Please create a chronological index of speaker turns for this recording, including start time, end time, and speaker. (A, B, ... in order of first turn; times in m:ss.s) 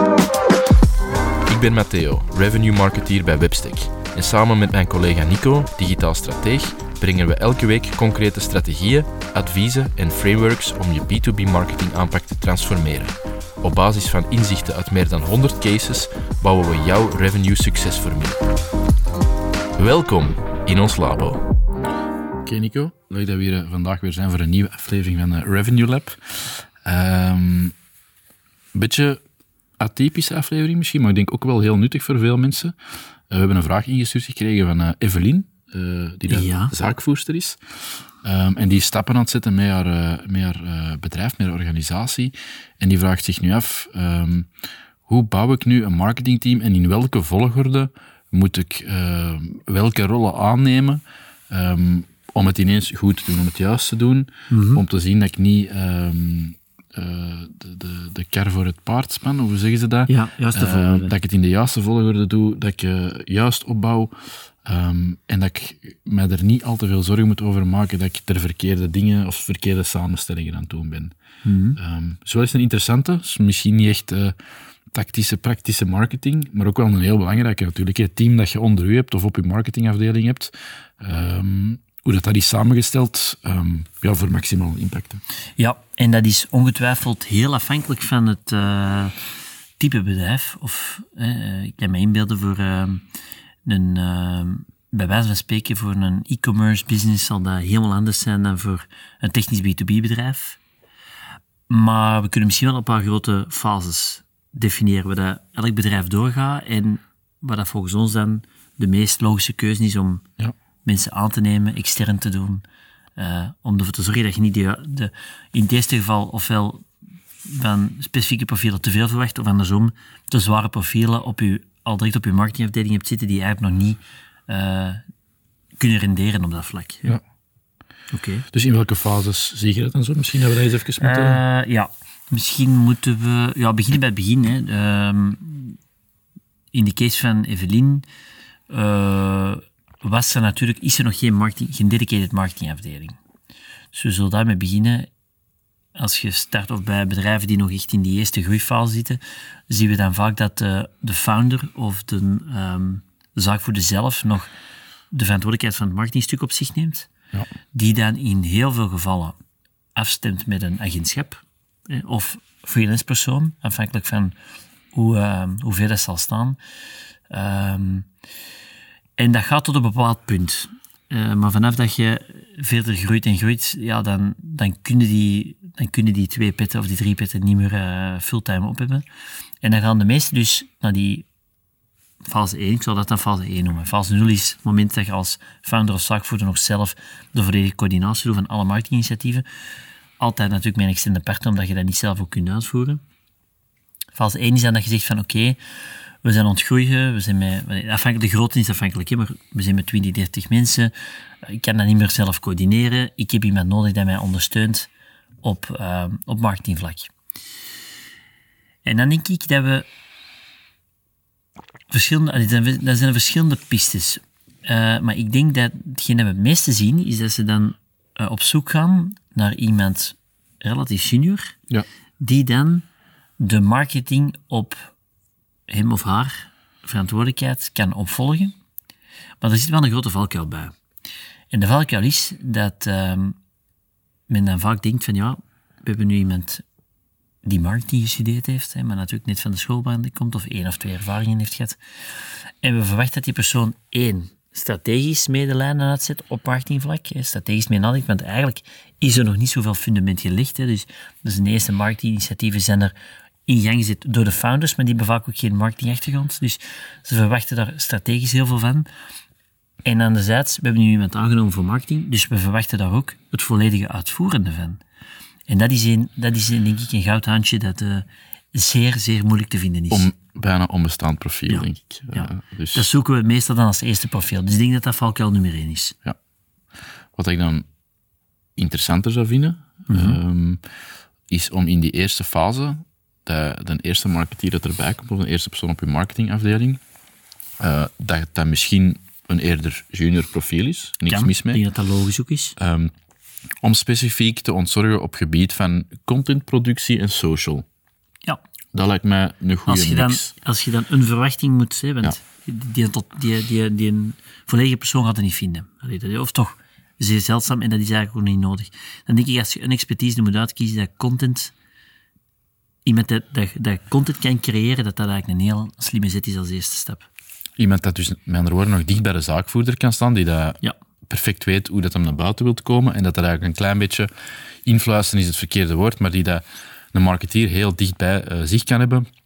0:01.5-0:18.4 A
0:19.8-0:21.4 A
0:22.4-0:27.7 B
0:28.7-0:29.2 B
0:29.8-0:32.8 B
0:33.3-0:44.5 B
0:36.3-0:36.7 C
0:45.1-1:04.1 B
0:54.5-0:54.8 C
1:00.1-1:01.1 C
1:04.6-1:11.1 B
1:11.4-1:11.8 C
1:11.8-1:14.4 B
1:14.9-1:25.2 B
1:25.6-1:29.2 C
1:29.8-1:33.0 C
1:33.6-1:40.6 C
1:41.7-1:50.2 C
1:50.8-1:52.6 C
1:53.2-1:56.9 C
1:57.4-2:05.0 C
2:05.8-2:07.2 C
2:08.1-2:08.5 C
2:08.5-2:11.4 B
2:11.0-2:15.8 C
2:16.7-2:18.0 C
2:18.7-2:23.2 C
2:23.9-2:25.1 C
2:26.0-2:34.5 C
2:35.1-2:37.1 C
2:37.7-2:39.4 C
2:40.0-2:44.4 C
2:44.9-2:46.6 C
2:47.3-2:48.1 C
2:49.2-2:59.0 C
2:59.6-3:01.3 C
3:02.2-3:09.4 C
3:10.2-3:13.0 C
3:14.2-3:15.6 C
3:16.2-3:24.9 C
3:25.4-3:27.1 C
3:28.8-3:29.9 C
3:31.9-3:41.6 C
3:42.2-3:42.9 C
3:43.4-3:44.9 C
3:45.7-3:48.6 C
3:49.4-3:50.8 C
3:51.5-3:53.4 C
3:54.3-3:56.6 C
3:57.4-4:01.8 C
4:02.6-4:12.9 C
4:13.5-4:18.9 C
4:19.8-4:24.8 C
4:25.5-4:30.1 C
4:29.9-4:32.9 B
4:31.5-4:36.0 C
4:37.1-4:37.7 B
4:38.6-4:40.6 B
4:39.9-4:40.2 C
4:41.3-4:46.8 B
4:47.6-4:51.6 B
4:51.1-4:52.6 C
4:52.6-4:52.9 B
4:53.6-4:57.7 B
4:58.7-5:00.3 B
4:59.7-5:11.5 C
5:12.8-5:17.1 C
5:17.6-5:24.1 B
5:24.6-5:29.1 B